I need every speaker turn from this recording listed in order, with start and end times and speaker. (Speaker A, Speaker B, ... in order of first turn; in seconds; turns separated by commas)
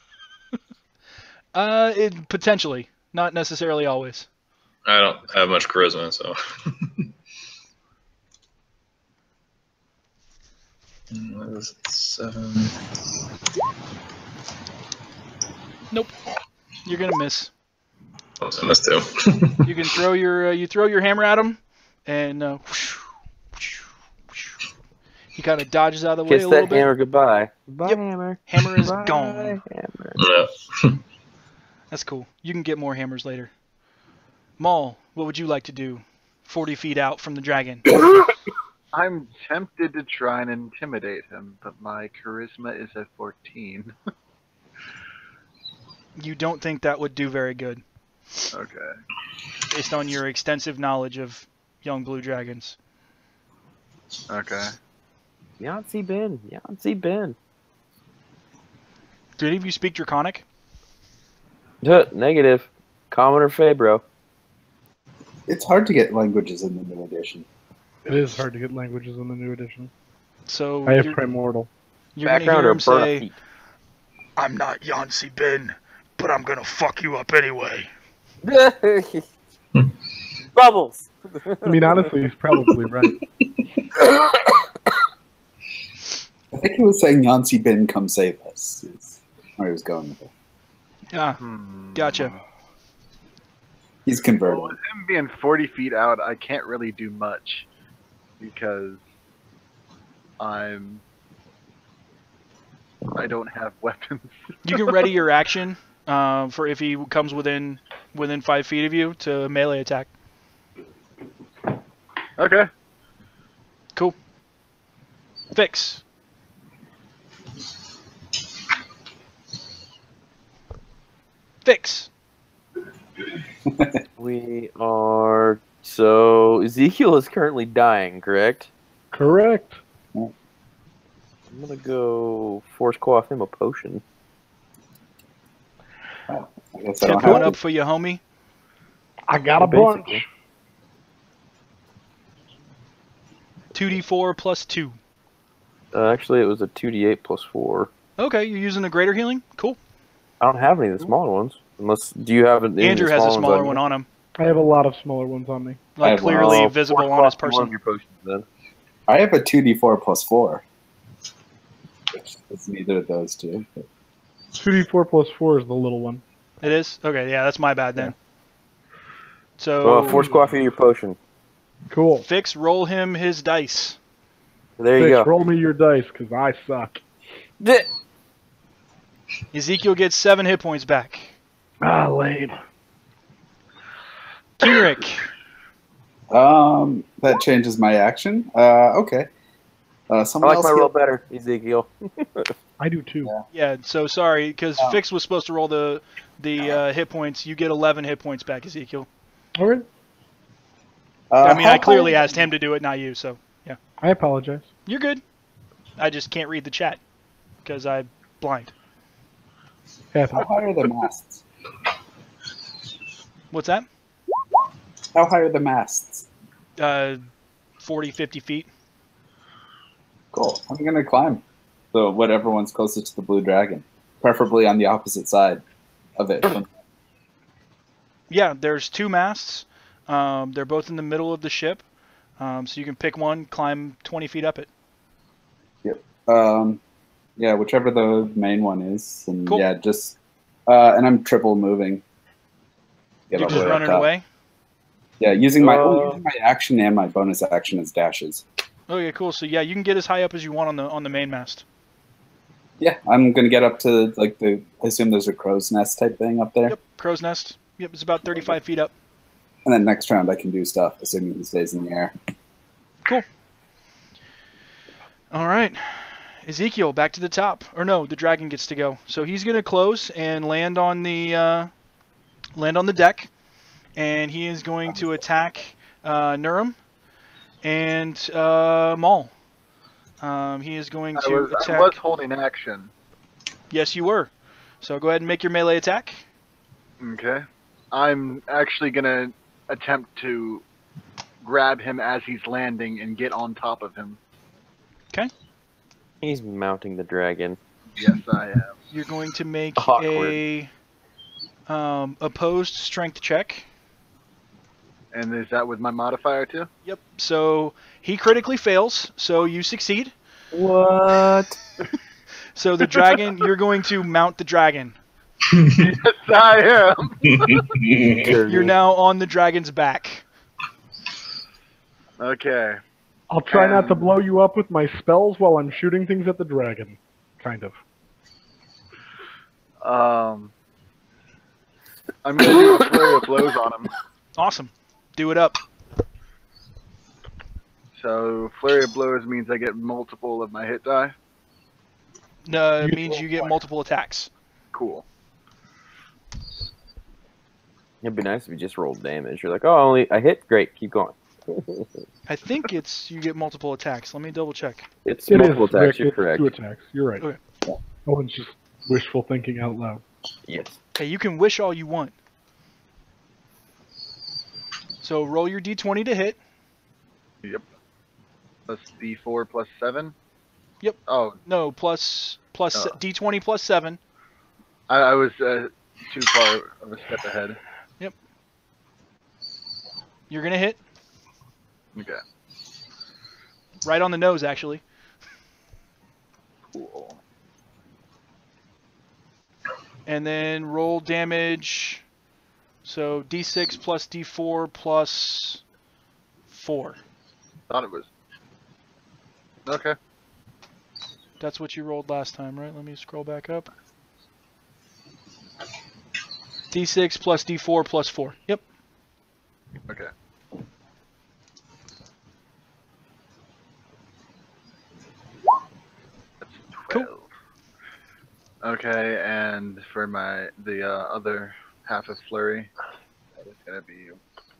Speaker A: 1.5-4.3, Speaker B: 4.8-7.1, Speaker B: 11.1-12.8, Speaker A: 16.9-17.5, Speaker B: 18.4-19.7, Speaker A: 19.6-23.0, Speaker A: 25.4-26.9, Speaker C: 26.3-30.2, Speaker A: 27.8-29.6, Speaker B: 30.2-30.9, Speaker A: 31.9-33.5, Speaker A: 34.6-37.9, Speaker D: 38.9-43.9, Speaker A: 46.1-47.8, Speaker D: 48.5-48.9, Speaker A: 49.7-52.8, Speaker D: 54.3-54.7, Speaker C: 55.6-57.4, Speaker A: 59.4-60.4, Speaker C: 61.8-64.0, Speaker E: 65.5-67.5, Speaker F: 68.0-69.9, Speaker A: 70.5-71.2, Speaker F: 70.8-71.7, Speaker A: 72.2-73.3, Speaker C: 72.2-73.3, Speaker A: 74.4-77.9, Speaker C: 78.4-79.2, Speaker C: 80.5-81.7, Speaker F: 81.6-83.2, Speaker E: 86.5-90.3, Speaker A: 91.1-91.4, Speaker D: 91.4-92.4, Speaker A: 91.9-92.3, Speaker E: 94.1-94.8, Speaker D: 94.4-97.7, Speaker D: 98.4-99.0, Speaker D: 100.4-101.0, Speaker D: 103.1-104.3, Speaker A: 104.6-110.1, Speaker D: 112.4-112.7, Speaker A: 115.5-116.0, Speaker A: 121.6-122.1, Speaker E: 123.7-124.0, Speaker C: 124.2-128.7, Speaker F: 129.1-129.8, Speaker C: 131.5-134.0, Speaker E: 136.3-137.6, Speaker A: 137.0-138.2, Speaker C: 137.2-137.5, Speaker F: 139.3-140.2, Speaker C: 139.6-140.2, Speaker A: 143.7-145.0, Speaker C: 145.9-147.9, Speaker A: 148.2-149.8, Speaker C: 150.4-153.8, Speaker A: 152.8-154.1, Speaker F: 154.4-155.8, Speaker A: 155.9-157.7, Speaker E: 156.0-156.6, Speaker C: 156.2-158.4, Speaker E: 159.1-160.6, Speaker E: 162.2-163.8, Speaker F: 164.6-166.2, Speaker A: 166.6-168.1, Speaker A: 169.6-170.3, Speaker C: 169.8-171.2, Speaker F: 171.9-172.2, Speaker A: 172.2-174.0, Speaker C: 174.8-175.3, Speaker F: 175.0-177.0, Speaker C: 177.6-177.9, Speaker A: 179.5-181.3, Speaker F: 181.8-182.6, Speaker A: 184.6-185.3, Speaker E: 186.3-189.3, Speaker E: 190.1-190.9, Speaker C: 190.4-192.5, Speaker F: 192.8-193.3, Speaker A: 193.5-199.1, Speaker F: 199.6-199.9, Speaker E: 201.3-202.3, Speaker A: 201.4-203.8, Speaker F: 204.0-204.7, Speaker A: 204.8-205.2, Speaker A: 206.0-207.0, Speaker A: 207.6-208.7, Speaker F: 210.1-210.5, Speaker E: 210.3-211.4, Speaker A: 213.5-213.9, Speaker E: 215.1-216.2, Speaker A: 216.8-217.2, Speaker A: 217.8-218.7, Speaker E: 220.3-225.6, Speaker E: 226.2-226.7, Speaker A: 228.3-231.8, Speaker A: 232.4-234.7, Speaker E: 235.8-236.8, Speaker E: 237.4-240.2, Speaker E: 240.7-242.0, Speaker E: 243.3-244.1, Speaker A: 243.3-244.2, Speaker E: 245.2-248.4, Speaker C: 245.6-246.2, Speaker A: 248.9-251.6, Speaker E: 252.8-256.8, Speaker A: 256.7-258.9, Speaker E: 259.6-262.1, Speaker A: 265.3-271.7, Speaker A: 272.6-273.3, Speaker A: 273.9-276.8, Speaker A: 277.6-279.3, Speaker A: 280.2-281.9, Speaker D: 281.1-282.9, Speaker A: 283.7-284.3, Speaker A: 284.8-286.2, Speaker D: 287.0-290.6, Speaker D: 291.4-294.2, Speaker C: 296.2-297.6, Speaker D: 298.0-298.8, Speaker A: 298.9-300.7, Speaker C: 299.8-300.4, Speaker A: 301.7-303.6, Speaker D: 305.1-306.7, Speaker A: 306.9-310.1, Speaker C: 310.5-311.6, Speaker A: 312.6-315.0, Speaker D: 315.8-317.7, Speaker C: 318.0-318.7, Speaker E: 318.1-318.3, Speaker A: 318.4-320.2, Speaker D: 322.2-322.8, Speaker F: 323.3-327.7, Speaker D: 323.5-324.1, Speaker D: 329.8-330.5, Speaker D: 332.2-333.9, Speaker A: 334.4-335.6, Speaker D: 338.0-341.1, Speaker A: 342.4-344.3, Speaker D: 344.7-345.1, Speaker C: 348.0-352.0, Speaker A: 352.3-354.9, Speaker C: 355.1-356.5, Speaker F: 355.3-357.2, Speaker F: 358.1-360.0, Speaker C: 360.5-360.8, Speaker A: 360.9-362.1, Speaker A: 365.0-366.4, Speaker D: 368.7-370.1, Speaker A: 370.8-374.0, Speaker D: 371.1-371.4, Speaker D: 374.9-377.6, Speaker A: 380.3-380.8, Speaker D: 381.9-382.2, Speaker A: 383.8-384.8, Speaker D: 386.7-387.2, Speaker A: 390.1-392.0, Speaker A: 392.9-395.6, Speaker A: 396.5-397.0, Speaker D: 397.7-398.1, Speaker D: 399.6-400.0, Speaker A: 401.4-403.7, Speaker A: 406.7-408.6, Speaker D: 416.4-417.3, Speaker D: 418.6-422.7, Speaker D: 423.4-424.2